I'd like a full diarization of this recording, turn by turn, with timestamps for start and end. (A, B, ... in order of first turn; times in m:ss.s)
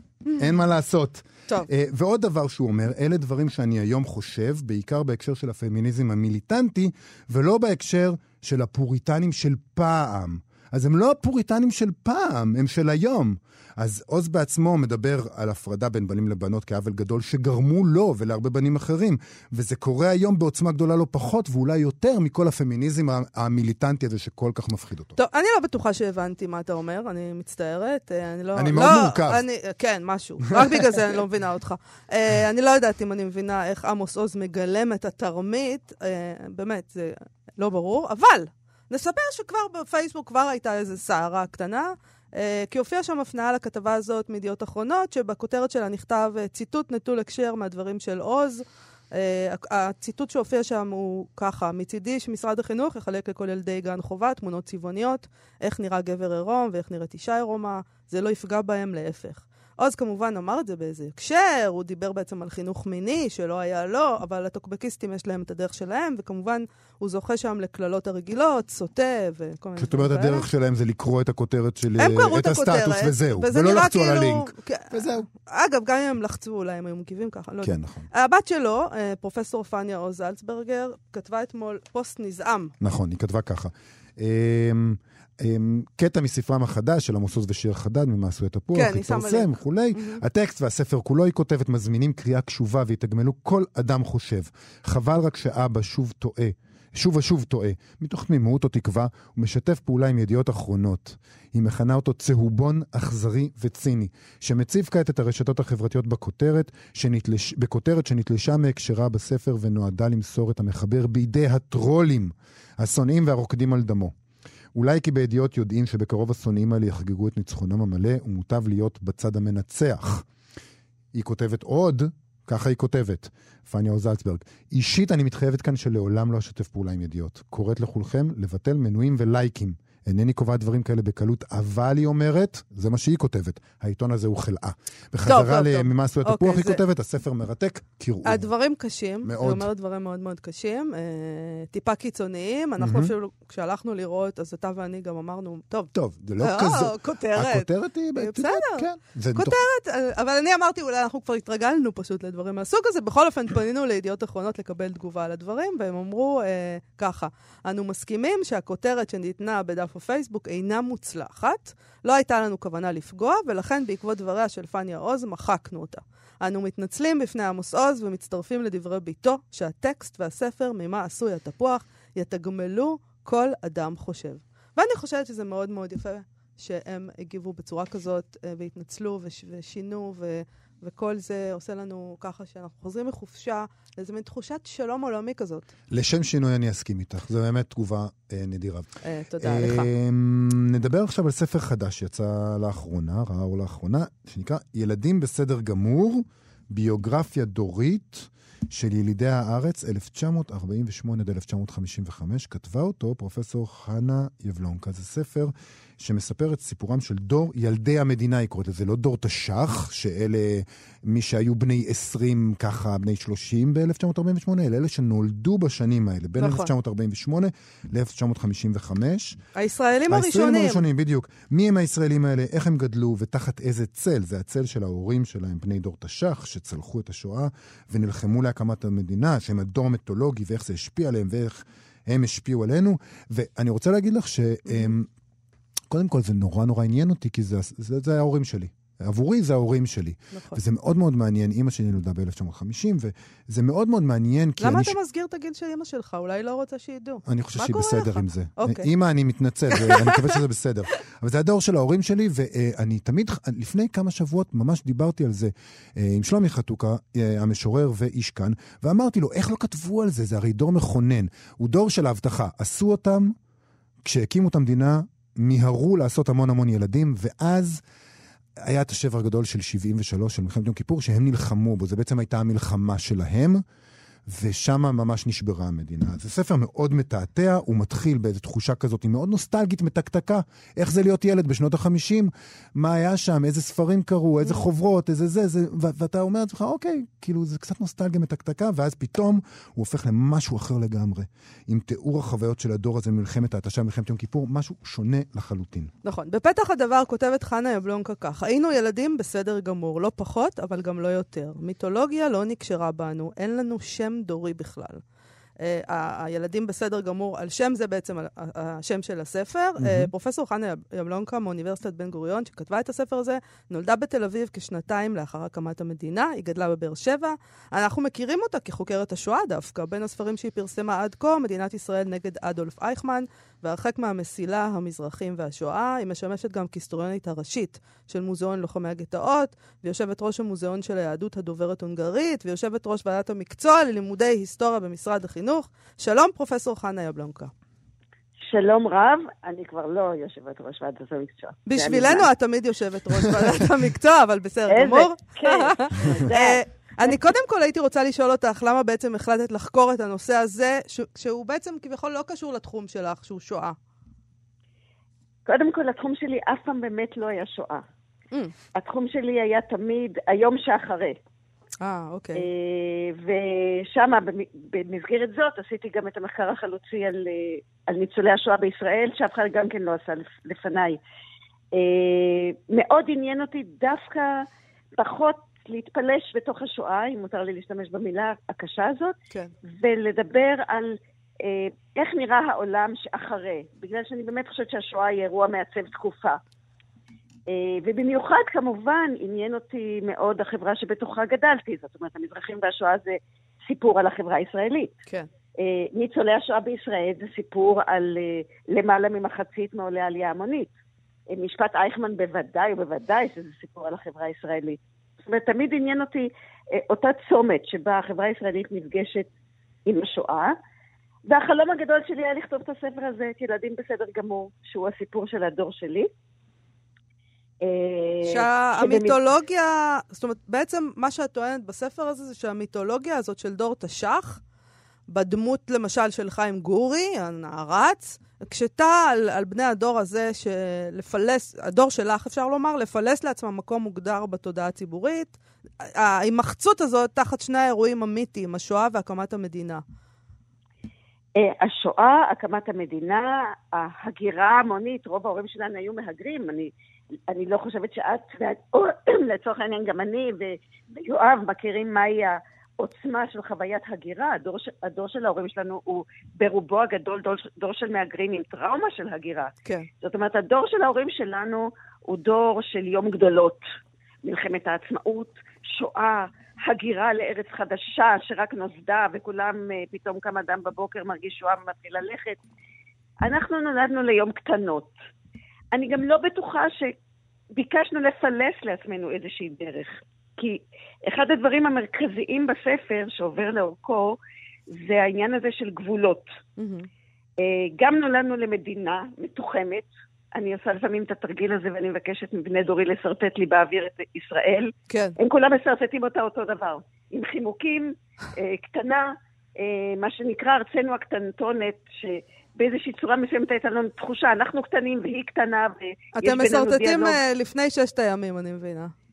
0:00.3-0:00.6 A
0:00.4-0:25.2 B
0:25.2-1:10.5 A
0:28.6-0:29.4 B
1:09.8-1:15.3 B
1:12.0-1:22.7 A
1:17.6-1:18.1 B
1:22.8-1:54.1 B
1:28.8-1:30.2 A
1:54.8-2:00.3 B
2:01.1-2:18.5 B
2:15.3-2:16.8 A
2:18.2-3:05.7 A
2:19.2-2:19.7 B
2:22.8-2:23.1 B
2:25.9-2:29.6 B
3:05.9-3:08.9 B
3:09.0-3:09.9 A
3:09.4-3:39.4 B
3:36.4-3:36.7 A
3:39.6-3:40.8 A
3:40.1-3:55.1 B
3:55.9-4:05.0 B
4:00.3-4:00.6 A
4:04.6-4:08.9 A
4:07.2-4:23.3 B
4:09.7-4:10.4 A
4:24.0-4:27.8 B
4:28.6-4:33.6 B
4:34.3-4:55.9 B
4:56.0-5:05.0 A
5:05.6-5:37.5 A
5:09.8-5:10.1 B
5:38.4-5:42.3 C
5:41.7-5:53.8 A
5:44.7-5:47.2 C
5:55.5-5:57.8 C
5:58.8-6:01.2 C
6:01.8-6:02.4 A
6:02.4-6:11.0 C
6:11.7-6:19.2 C
6:19.7-6:26.4 C
6:27.5-6:35.0 C
6:35.6-6:40.7 C
6:41.3-6:49.3 C
6:49.9-6:50.5 C
6:51.3-6:56.1 C
6:57.6-6:59.2 C
6:58.2-7:04.4 A
7:05.1-7:19.8 A
7:21.4-7:26.7 C
7:27.3-7:43.6 C
7:44.2-7:52.4 C
7:53.2-7:54.9 C
7:55.7-7:57.0 C
7:57.5-8:04.2 C
8:04.7-8:06.3 C
8:06.6-8:06.9 A
8:07.4-8:27.2 C
8:14.9-8:15.2 A
8:26.2-8:28.9 A